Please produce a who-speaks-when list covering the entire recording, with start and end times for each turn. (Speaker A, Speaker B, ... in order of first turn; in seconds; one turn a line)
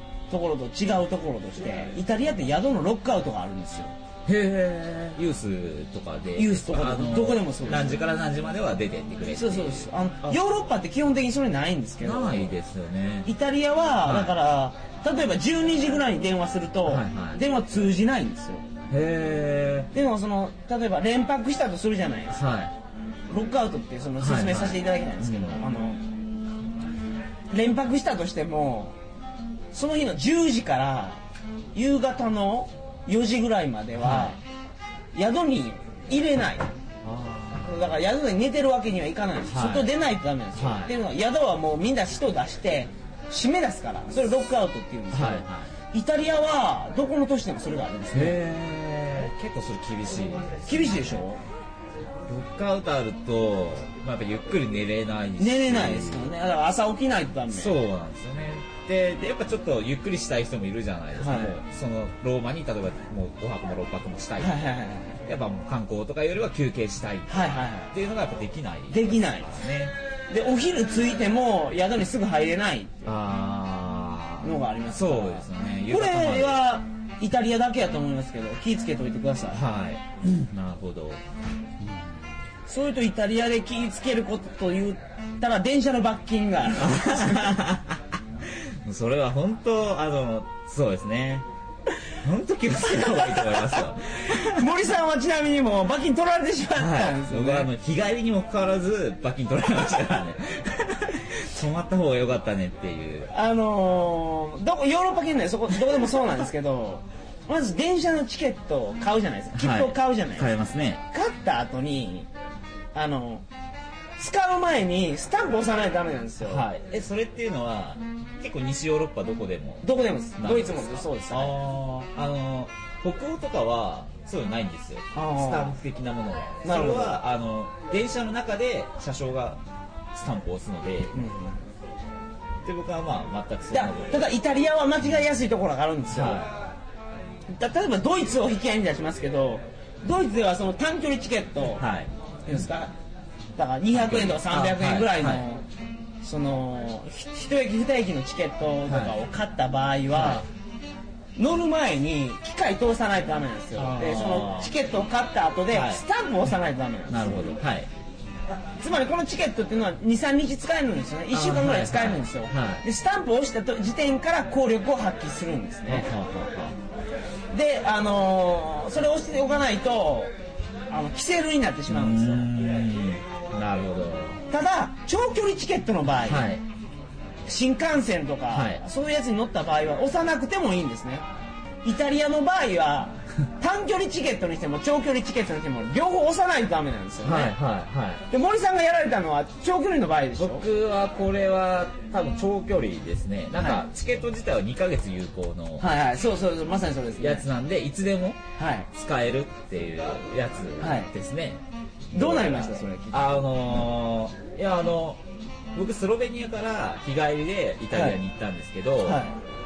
Speaker A: 0.3-3.9
Speaker B: 4.3-10.4
Speaker A: 6.4-8.0
Speaker A: 9.2-12.5
Speaker B: 12.0-13.3
Speaker A: 13.2-18.7
Speaker B: 14.0-14.4
Speaker B: 16.9-17.4
Speaker B: 18.9-19.9
Speaker A: 19.9-22.4
Speaker B: 22.3-22.8
Speaker A: 23.3-26.0
Speaker B: 24.2-25.6
Speaker A: 27.5-29.0
Speaker A: 29.7-31.2
Speaker A: 31.8-34.4
Speaker B: 34.0-34.4
Speaker A: 35.1-36.7
Speaker B: 37.0-37.8
Speaker A: 37.6-48.4
Speaker B: 39.5-40.0
Speaker B: 40.6-41.0
Speaker B: 45.1-45.7
Speaker B: 48.1-51.3
Speaker A: 50.7-51.4
Speaker B: 52.3-56.3
Speaker A: 55.4-57.8
Speaker B: 57.5-64.6
Speaker A: 61.2-61.6
Speaker A: 64.4-65.2
Speaker B: 65.3-69.9
Speaker A: 67.3-68.0
Speaker A: 68.9-69.5
Speaker A: 70.3-73.1
Speaker B: 73.1-76.7
Speaker A: 74.4-79.6
Speaker B: 79.5-81.2
Speaker B: 81.8-82.1
Speaker A: 82.7-87.7
Speaker B: 86.8-91.5
Speaker B: 92.2-94.8
Speaker A: 93.0-97.7
Speaker B: 96.8-103.3
Speaker A: 103.3-110.5
Speaker B: 109.5-111.0
Speaker A: 111.1-112.3
Speaker A: 113.0-113.5
Speaker A: 114.2-116.7
Speaker B: 116.4-129.6
Speaker A: 119.8-121.6
Speaker A: 125.1-125.8
Speaker A: 126.6-127.2
Speaker B: 130.1-131.3
Speaker A: 131.1-131.6
Speaker B: 132.6-134.3
Speaker A: 133.7-136.5
Speaker B: 136.1-136.5
Speaker A: 137.6-141.8
Speaker B: 141.8-142.7
Speaker A: 142.5-142.9
Speaker A: 143.6-145.6
Speaker B: 143.9-145.5
Speaker A: 146.2-150.5
Speaker B: 148.9-149.2
Speaker B: 150.1-150.4
Speaker A: 151.4-157.6
Speaker B: 153.7-154.8
Speaker B: 155.7-156.0
Speaker B: 157.1-157.9
Speaker A: 158.8-166.1
Speaker B: 161.3-162.8
Speaker B: 165.9-166.8
Speaker A: 167.5-170.3
Speaker A: 170.9-172.5
Speaker B: 171.9-174.4
Speaker A: 174.5-176.5
Speaker B: 176.2-176.6
Speaker A: 177.5-181.3
Speaker B: 178.5-178.8
Speaker A: 181.8-187.6
Speaker B: 187.2-188.3
Speaker A: 188.3-190.7
Speaker B: 190.4-195.9
Speaker A: 195.8-197.5
Speaker B: 197.2-198.4
Speaker A: 198.6-198.9
Speaker B: 198.9-201.6
Speaker A: 200.8-201.1
Speaker A: 202.1-203.4
Speaker B: 202.1-205.2
Speaker B: 205.8-209.3
Speaker A: 207.9-208.2
Speaker A: 209.0-209.4